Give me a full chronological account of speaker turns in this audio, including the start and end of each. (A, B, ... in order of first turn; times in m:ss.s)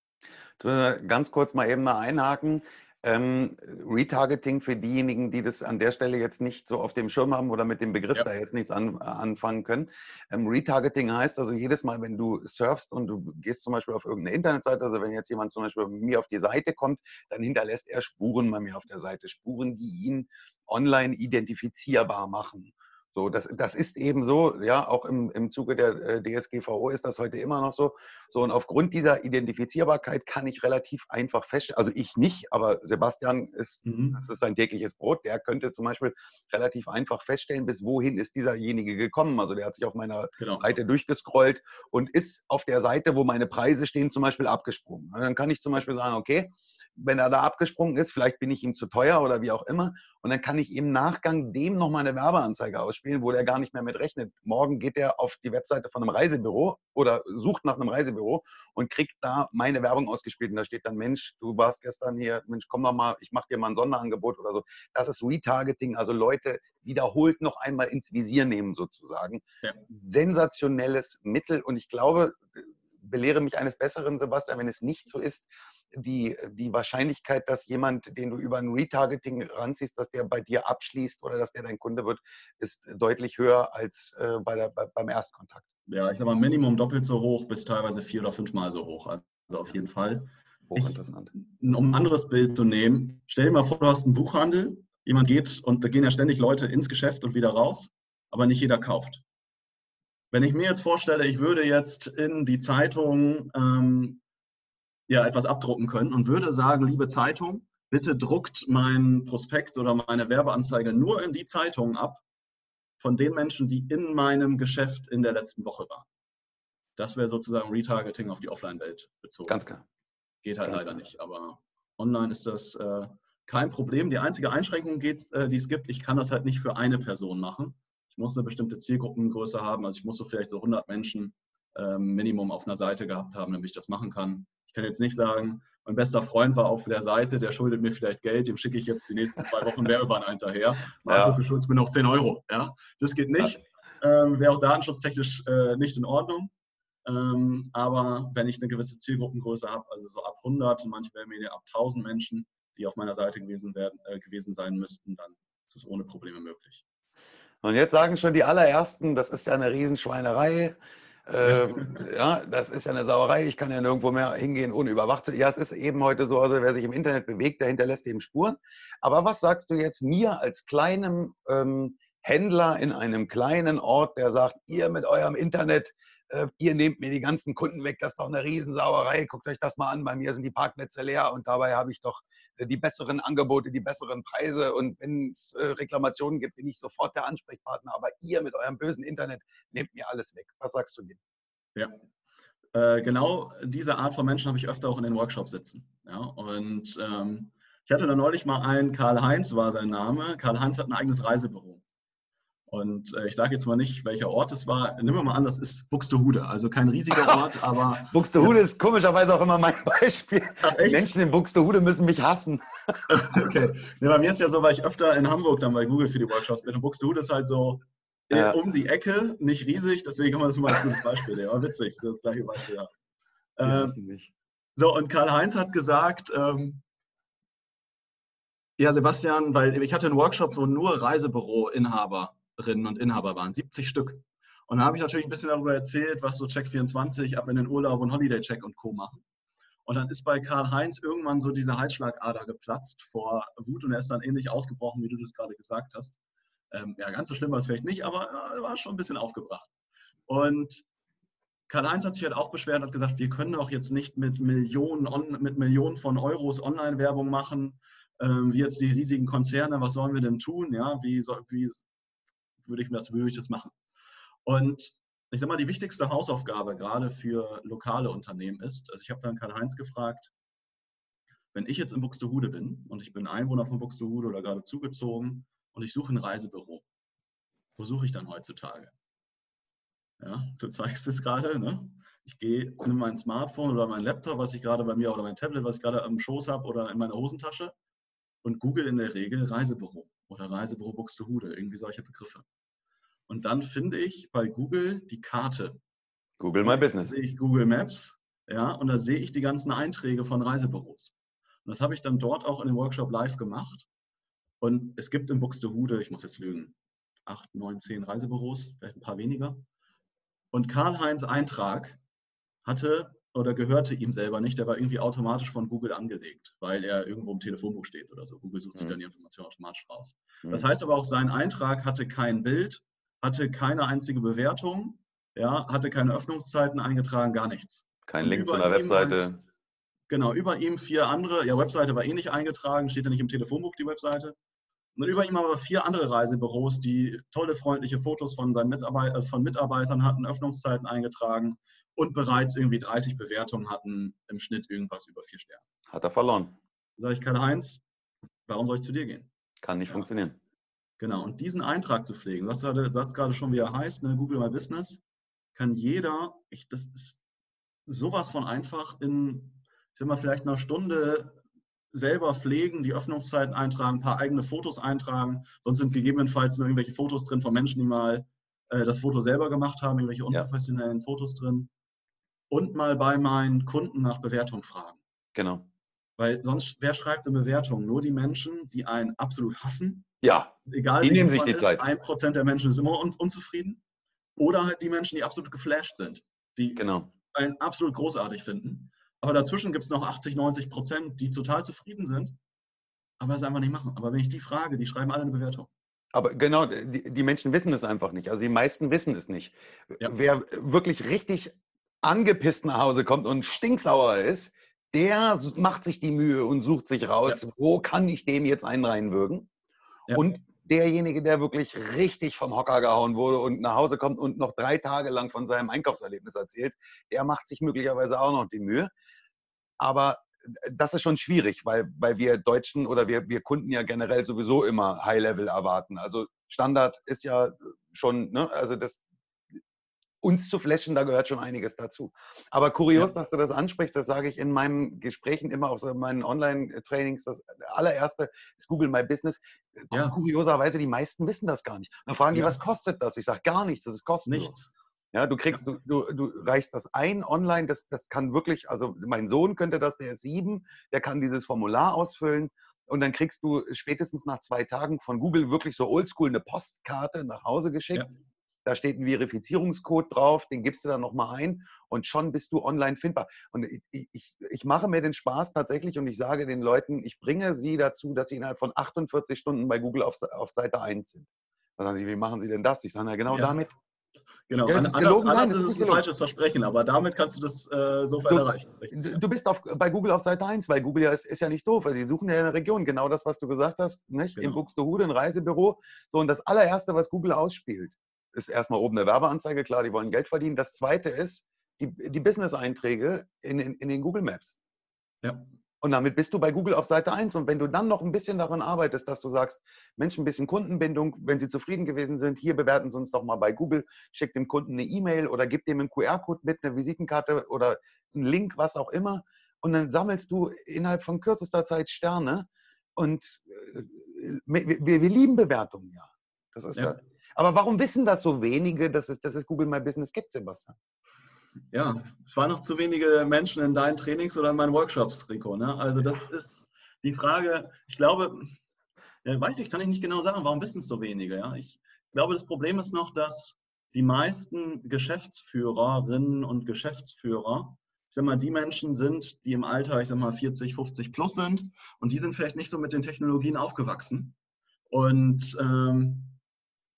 0:00.6-1:25.6 A
0:33.8-0:34.2 B
0:40.4-0:40.6 B
1:25.9-1:39.2 B
1:30.7-1:31.3 A
1:40.3-1:44.2 B
1:45.1-1:52.2 B
1:53.0-1:56.1 B
1:57.0-1:59.6 B
1:59.5-1:59.8 A
2:00.4-2:26.5 B
2:00.7-2:01.0 A
2:21.1-2:21.4 A
2:27.0-2:36.8 B
2:37.6-3:11.2 A
3:12.7-3:21.8 B
3:22.7-3:28.6 B
3:28.1-3:33.0 A
3:30.6-3:31.1 B
3:33.1-3:42.9 B
3:38.3-3:38.6 A
3:43.6-3:44.0 B
3:43.6-3:44.3 A
3:44.8-3:46.8 B
3:48.8-3:59.2 B
3:59.9-4:06.2 B
4:06.7-4:09.7 B
4:10.3-4:10.9 B
4:11.7-4:21.8 B
4:22.6-4:23.8 B
4:24.4-4:30.3 B
4:31.5-4:36.8 B
4:37.8-4:38.9 B
4:40.2-4:47.8 B
4:48.4-4:52.4 B
4:53.3-4:55.8 B
4:56.4-4:57.1 A
4:56.6-5:01.1 B
5:01.6-5:03.9 B
5:04.6-5:09.6 B
5:10.5-5:12.0 B
5:12.6-5:29.4 B
5:28.1-5:29.4 A
5:30.1-5:34.4 B
5:35.0-5:45.6 B
5:45.9-5:46.6 A
5:47.0-5:47.8 B
5:48.5-5:49.3 B
5:49.6-5:50.4 A
5:51.0-5:55.0 B
5:55.6-5:57.2 B
5:57.9-6:01.4 B
6:01.9-6:11.7 B
6:12.5-6:15.0 B
6:15.4-6:15.7 A
6:16.2-6:20.1 B
6:20.2-6:21.8 A
6:20.7-6:23.8 B
6:24.4-6:32.4 B
6:26.8-6:27.1 A
6:33.2-6:35.7 B
6:36.1-6:49.5 A
6:50.1-6:58.9 A
6:59.8-7:09.0 A
7:10.2-7:24.5 A
7:22.3-7:22.6 B
7:24.3-7:24.7 B
7:25.1-7:38.1 A
7:38.6-7:51.3 A
7:51.8-7:53.7 A
7:53.3-7:53.6 B
7:54.5-7:59.2 B
7:54.6-7:56.0 A
7:58.3-8:14.6 A
8:15.8-8:40.8 A
8:41.7-8:48.6 B
8:49.2-9:04.4 B
9:04.9-9:06.4 B